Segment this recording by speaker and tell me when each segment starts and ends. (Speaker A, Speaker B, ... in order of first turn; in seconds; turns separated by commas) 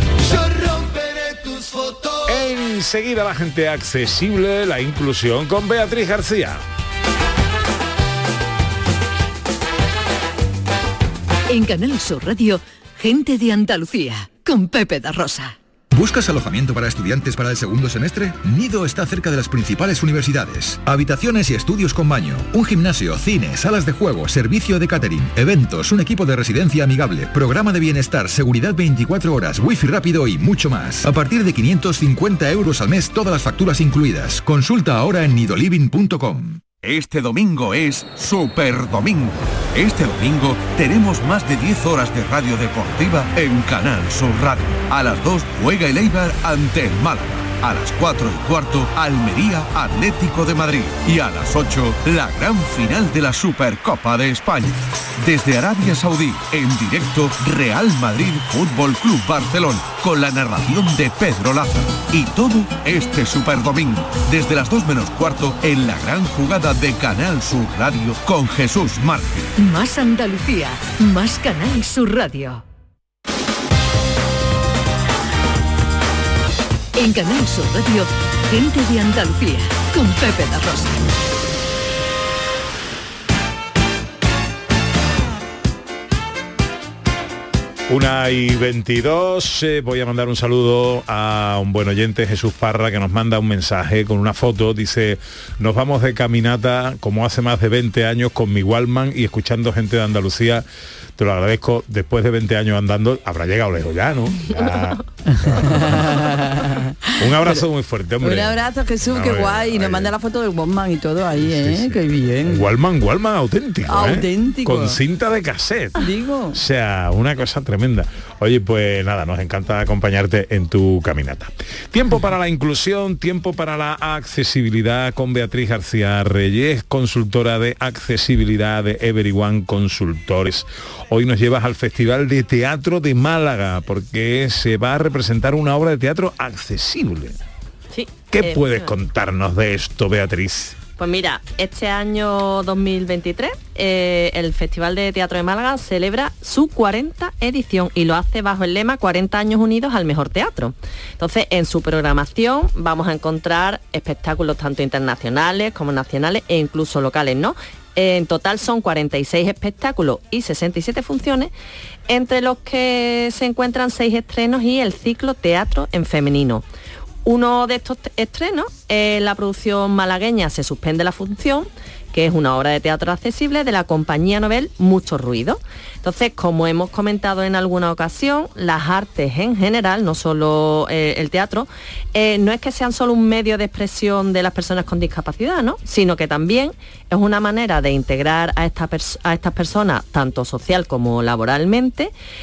Speaker A: 2.3-6.6, Speaker B: 11.5-15.6, Speaker C: 15.9-36.6, Speaker D: 36.7-69.5, Speaker B: 69.6-72.6, Speaker B: 77.0-81.1, Speaker A: 87.9-100.7, Speaker A: 101.2-106.2, Speaker E: 105.5-107.6, Speaker A: 107.2-110.2, Speaker E: 108.2-112.7, Speaker A: 111.4-116.0, Speaker E: 113.9-115.0, Speaker E: 116.0-116.6, Speaker A: 116.5-137.4, Speaker F: 137.9-138.9, Speaker A: 138.3-140.8, Speaker F: 141.0-161.5, Speaker F: 162.1-166.7, Speaker F: 167.2-192.1